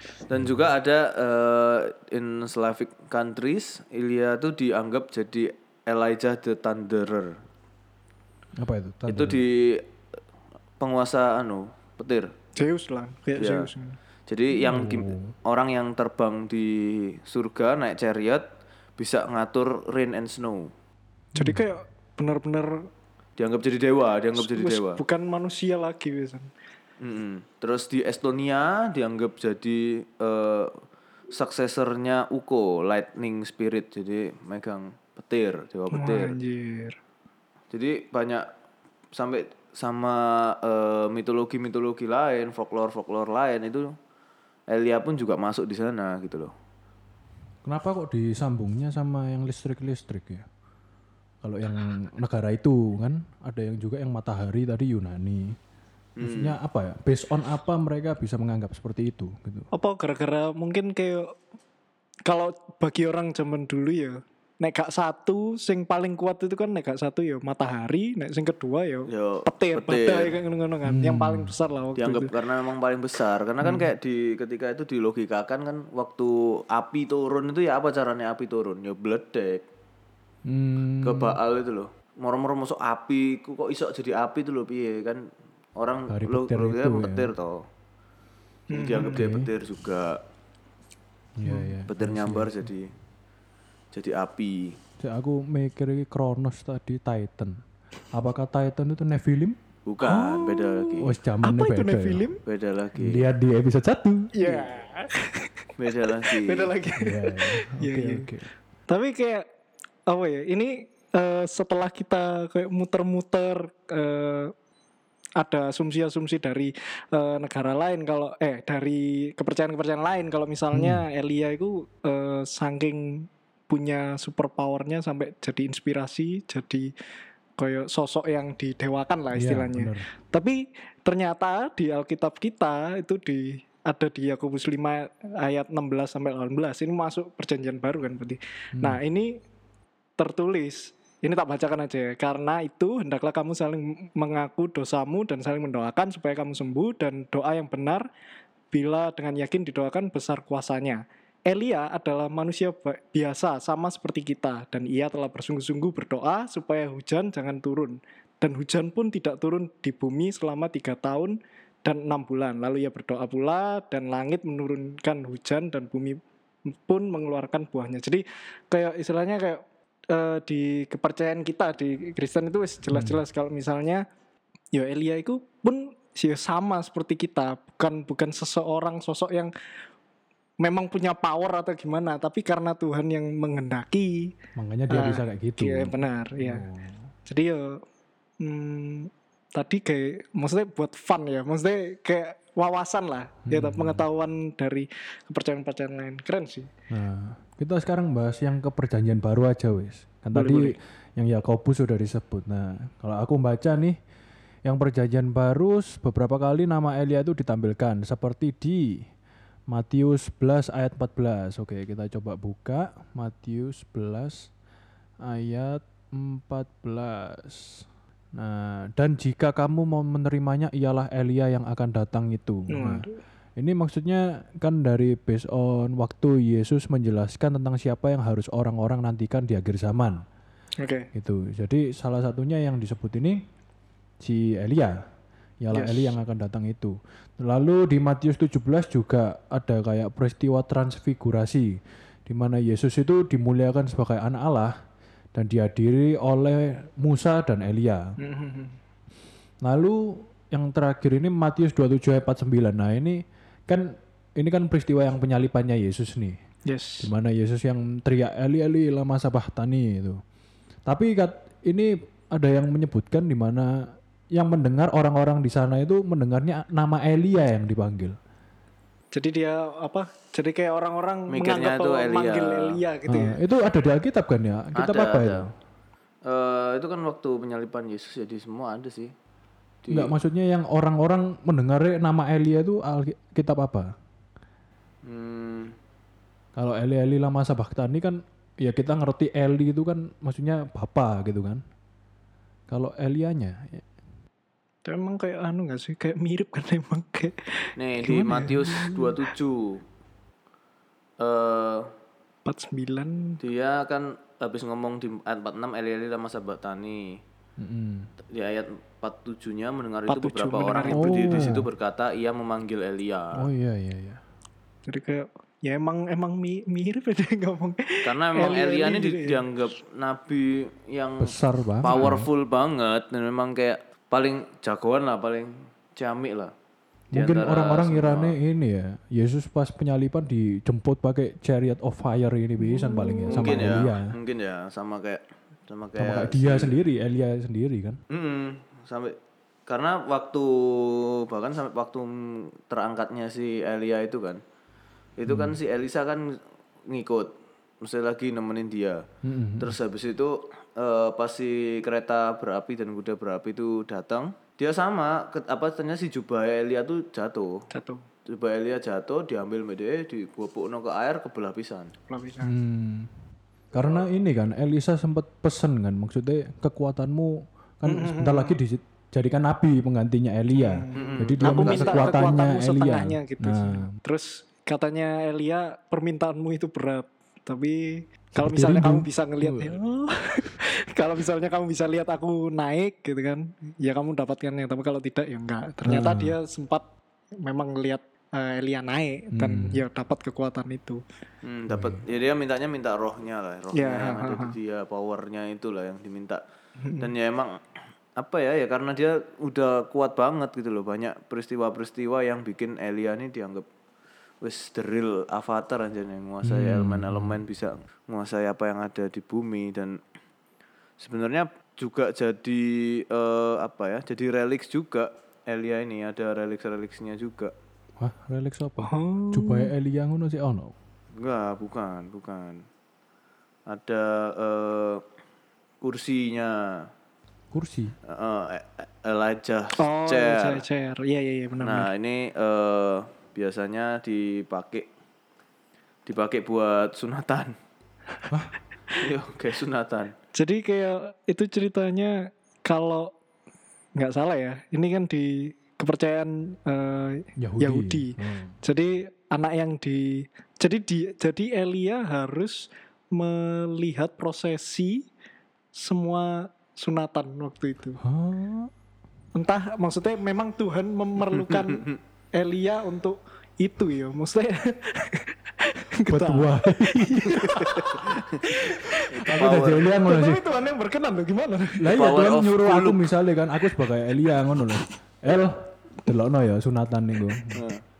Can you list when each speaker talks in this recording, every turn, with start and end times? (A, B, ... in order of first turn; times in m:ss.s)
0:00.3-0:07.4 A
0:08.6-0:09.4 B
0:09.1-0:09.9 A
0:10.8-0:12.3 A
0:12.6-0:14.0 C
0:13.3-0:13.7 A
0:14.3-0:18.4 A
0:14.5-0:15.3 B
0:19.0-0:20.7 A
0:21.3-0:21.7 B
0:21.3-0:22.9 C
0:23.4-0:25.0 A
0:24.4-0:26.5 C
0:27.0-0:36.4 A
0:35.9-0:37.0 C
0:37.7-0:38.4 A
0:39.1-0:43.9 A
0:44.7-0:46.5 A
0:47.6-0:50.5 B
0:51.4-0:55.6 B
0:56.2-0:56.6 A
0:56.2-0:59.7 B
0:59.7-1:01.3 C
1:02.2-1:12.3 C
1:09.1-1:10.4 A
1:10.8-1:11.5 B
1:12.0-1:19.6 A
1:20.4-1:21.4 B
1:21.0-1:27.6 A
1:26.1-1:27.3 B
1:28.7-1:29.2 C
1:28.7-1:30.2 A
1:29.0-1:29.5 B
1:31.4-1:32.7 B
1:31.4-1:31.7 C
1:31.9-1:32.9 A
1:33.9-1:34.8 A
1:35.0-1:37.6 B
1:38.1-1:39.6 B
1:39.8-1:41.1 A
1:40.0-1:42.4 C
1:41.0-1:42.2 B
1:42.4-1:43.2 A
1:43.0-1:44.3 B
1:44.3-1:45.7 C
1:45.8-1:46.7 A
1:46.2-1:48.3 C
1:47.0-1:48.5 B
1:48.9-1:49.4 C
1:50.1-1:54.5 C
1:55.4-2:06.9 C
2:00.7-2:01.0 B
2:07.6-2:19.4 C
2:09.3-2:10.1 B
2:18.7-2:19.0 B
2:20.2-2:28.0 C
2:28.7-2:54.0 C
2:52.9-2:53.2 B
2:54.7-2:59.5 C
3:00.6-3:04.3 C
3:04.6-3:07.1 B
3:04.9-3:06.6 C
3:07.3-3:07.8 C
3:08.4-3:16.7 C
3:13.5-3:14.0 B
3:16.9-3:24.0 B
3:20.3-3:20.8 C
3:24.6-3:29.1 B
3:29.7-3:34.5 B
3:35.2-3:43.0 B
3:42.7-3:43.2 C
3:43.6-3:50.2 B
3:50.8-3:51.1 C
3:51.1-3:53.4 B
3:54.2-3:55.0 B
3:55.6-4:04.7 B
3:55.7-3:56.1 C
4:05.3-4:08.1 B
4:08.2-4:08.8 C
4:09.6-4:16.4 B
4:16.7-4:17.1 C
4:17.0-4:20.2 B
4:20.9-4:28.2 B
4:29.1-4:33.4 C
4:31.3-4:32.8 A
4:33.1-4:35.5 B
4:34.7-4:35.5 A
4:36.2-4:39.1 A
4:39.8-4:40.1 A
4:39.9-4:43.9 B
4:45.0-4:45.8 A
4:46.6-4:51.6 B
4:52.7-4:53.8 B
4:54.8-4:57.7 C
4:57.8-4:59.8 A
4:58.0-4:58.8 B
5:01.2-5:01.9 A
5:02.4-5:03.4 C
5:03.4-5:07.2 A
5:07.6-5:08.1 B
5:08.3-5:13.5 A
5:10.1-5:11.5 C
5:10.9-5:11.7 B
5:13.4-5:14.2 B
5:14.9-5:19.4 C
5:18.0-5:26.5 A
5:21.2-5:22.3 B
5:27.1-5:34.1 B
5:27.1-5:28.4 A
5:32.6-5:33.8 C
5:33.3-5:36.7 A
5:36.0-5:38.0 B
5:38.1-5:39.1 A
5:39.7-5:44.4 A
5:45.2-5:49.0 A
5:45.3-5:45.6 B
5:49.2-5:49.8 B
5:49.6-5:57.6 A
5:57.7-5:58.0 C
5:58.3-6:01.9 A
6:02.1-6:02.5 C
6:02.4-6:03.1 B
6:03.7-6:13.9 B
6:07.8-6:08.6 C
6:10.5-6:26.8 C
6:10.9-6:12.2 A
6:18.3-6:19.8 B
6:25.8-6:26.4 B
6:27.4-6:31.0 C
6:29.3-6:29.8 B
6:31.4-6:36.4 A
6:31.7-6:32.0 B
6:33.7-6:34.6 C
6:36.8-6:37.1 C
6:37.0-6:37.6 A
6:38.2-6:43.6 A
6:44.4-6:50.0 A
6:46.4-6:47.4 B
6:51.0-6:57.5 A
6:58.0-7:00.7 B
6:58.8-6:59.7 C
7:01.2-7:02.6 A
7:03.7-7:05.0 A
7:05.8-7:06.9 A
7:07.5-7:07.9 B
7:08.0-7:10.6 A
7:09.8-7:11.9 C
7:11.6-7:14.9 A
7:16.0-7:17.5 A
7:18.9-7:20.1 A
7:20.3-7:23.1 C
7:24.0-7:35.0 C
7:27.4-7:28.6 B
7:35.7-7:38.0 C
7:38.0-7:38.7 B
7:39.3-7:49.1 C
7:41.5-7:42.0 A
7:46.1-7:47.8 B
7:47.6-7:48.4 A
7:49.1-7:49.9 A
7:49.3-7:50.4 B
7:49.9-7:52.0 C
7:51.8-7:57.6 B
7:51.9-7:53.0 A
7:57.5-7:57.8 A